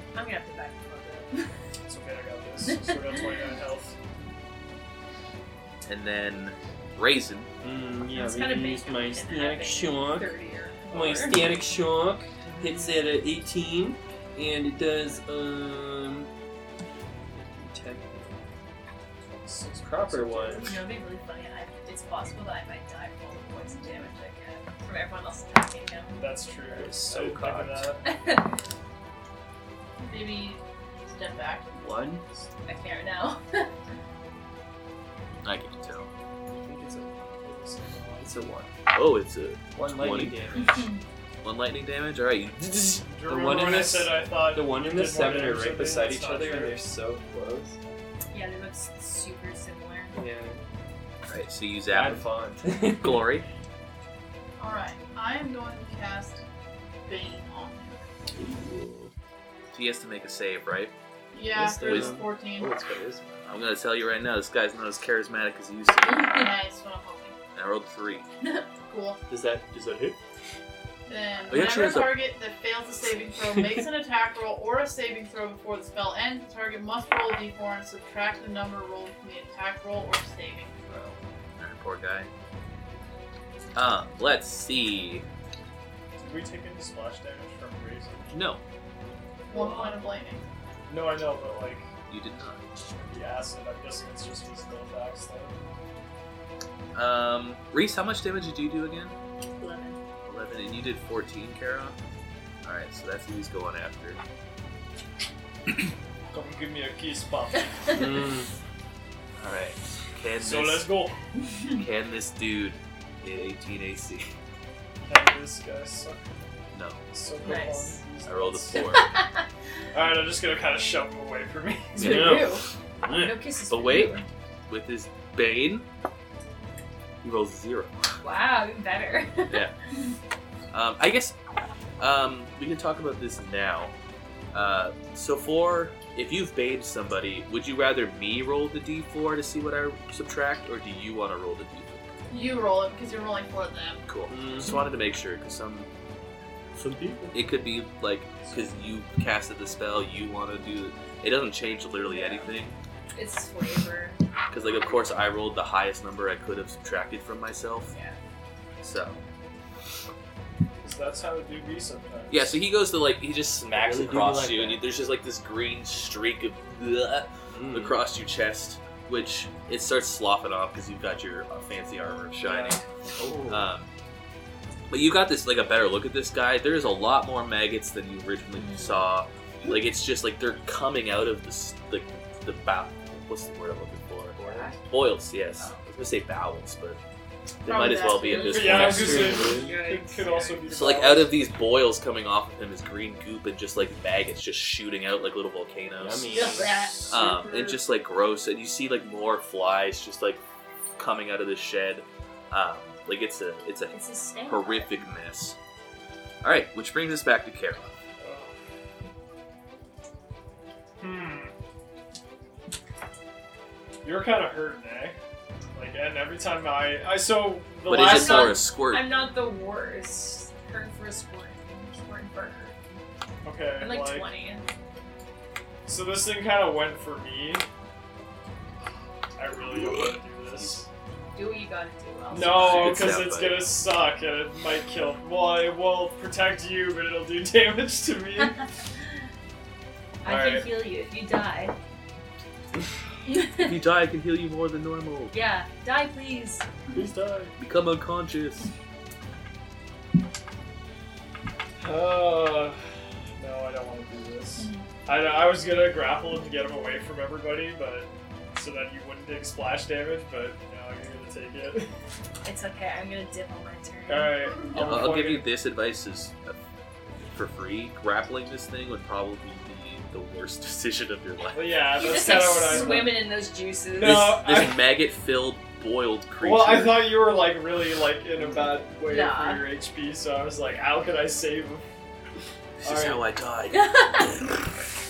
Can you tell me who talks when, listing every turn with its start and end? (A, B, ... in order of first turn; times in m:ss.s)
0:00.1-0:01.5 A
0:01.8-0:04.0 B
0:02.7-0:03.2 A
0:05.8-0:07.5 C
0:07.6-0:10.3 D
0:08.1-0:11.6 A
0:10.9-0:16.3 D
0:17.3-0:18.4 D
0:19.3-0:20.8 B
0:19.8-0:20.8 D
0:20.6-0:26.2 A
0:26.2-0:28.0 B
0:26.7-0:27.9 D
0:28.0-0:28.5 A
0:30.0-0:31.8 E
0:31.8-0:32.3 D
0:32.6-0:33.7 A
0:35.4-0:36.1 C
0:36.6-0:37.3 D
0:37.4-0:38.4 B
0:38.2-0:38.7 D
0:38.9-0:40.6 C
0:39.7-0:40.8 D
0:41.4-0:43.1 C
0:43.0-0:46.8 B
0:43.2-0:47.8 D
0:48.3-0:50.2 A
0:50.1-0:50.7 D
0:51.3-0:52.2 C
0:51.9-0:53.3 D
0:52.9-0:53.5 C
0:54.6-0:56.4 E
0:57.0-0:58.0 E
0:58.4-0:59.1 D
0:59.7-1:00.9 C
1:01.3-1:02.7 E
1:01.5-1:03.4 D
1:01.8-1:02.2 C
1:03.4-1:06.3 C
1:06.1-1:06.5 A
1:06.2-1:07.3 E
1:07.5-1:08.2 C
1:08.8-1:09.2 E
1:09.3-1:10.2 D
1:11.1-1:21.2 E
1:11.5-1:12.2 C
1:13.5-1:13.8 D
1:21.6-1:22.3 C
1:23.7-1:25.2 C
1:26.2-1:28.3 B
1:28.3-1:28.6 C
1:29.5-1:30.0 A
1:29.5-1:30.4 E
1:30.9-1:31.9 B
1:32.1-1:32.6 C
1:33.0-1:35.6 B
1:36.9-1:39.2 C
1:39.6-1:40.0 A
1:40.2-1:42.0 C
1:42.6-1:44.2 C
1:46.3-1:48.0 B
1:47.9-1:48.5 D
1:49.4-1:50.9 C
1:50.4-1:51.2 B
1:51.8-1:54.3 C
1:55.0-1:56.3 B
1:56.7-1:57.0 C
1:57.1-1:58.9 B
1:57.4-1:58.0 A
1:58.2-1:59.1 C
1:58.8-1:59.4 A
1:59.9-2:02.3 B
2:02.0-2:04.2 A
2:02.0-2:03.4 D
2:02.0-2:02.4 C
2:03.7-2:05.8 C
2:07.2-2:08.2 C
2:08.2-2:09.6 A
2:10.7-2:11.4 C
2:12.0-2:13.9 C
2:14.5-2:22.0 C
2:22.3-2:24.0 E
2:24.0-2:25.9 C
2:24.3-2:24.8 D
2:26.8-2:27.4 D
2:27.3-2:32.8 C
2:32.1-2:32.5 A
2:33.1-2:35.0 A
2:34.5-2:37.9 C
2:37.9-2:38.2 A
2:38.8-2:39.2 C
2:40.8-2:42.6 B
2:42.3-2:52.8 C
2:43.7-2:44.8 D
2:47.5-2:47.9 D
2:52.4-2:52.8 B
2:53.2-2:53.7 D
2:53.5-2:53.9 C
2:54.9-3:07.0 C
2:58.5-2:59.1 A
3:04.4-3:04.7 D
3:04.4-3:04.8 A
3:07.6-3:09.4 C
3:07.6-3:08.7 E
3:08.0-3:10.7 A
3:08.4-3:11.4 B
3:08.6-3:09.7 D
3:10.7-3:16.5 C
3:16.0-3:17.2 D
3:16.3-3:17.3 A
3:17.1-3:20.4 C
3:21.0-3:25.6 C
3:23.9-3:24.9 A
3:26.4-3:28.0 C
3:28.2-3:28.5 B
3:31.0-3:31.5 B
3:34.0-3:35.2 B
3:35.7-3:38.6 B
3:37.8-3:39.1 C
3:37.9-3:43.0 A
3:43.4-3:44.3 B
3:43.8-3:44.6 A
3:45.8-3:47.6 B
3:49.4-3:50.9 B
3:49.7-3:50.8 C
3:51.3-3:53.1 A
3:52.3-3:58.6 B
3:52.4-3:53.7 C
4:00.2-4:01.7 A
4:00.2-4:00.7 B
4:03.2-4:03.8 A
4:03.6-4:05.3 C
4:05.3-4:06.6 A
4:06.9-4:07.5 B
4:07.6-4:08.7 C
4:11.8-4:12.8 B
4:13.4-4:21.9 B
4:22.4-4:24.6 A
4:24.1-4:25.5 B
4:24.7-4:31.9 C
4:31.5-4:33.2 B
4:31.9-4:34.3 A
4:34.0-4:34.9 B
4:34.0-4:37.2 C
4:36.4-4:41.8 B
4:39.0-4:39.6 A
4:42.8-4:43.8 C
4:42.8-4:43.2 B
4:43.7-4:44.5 A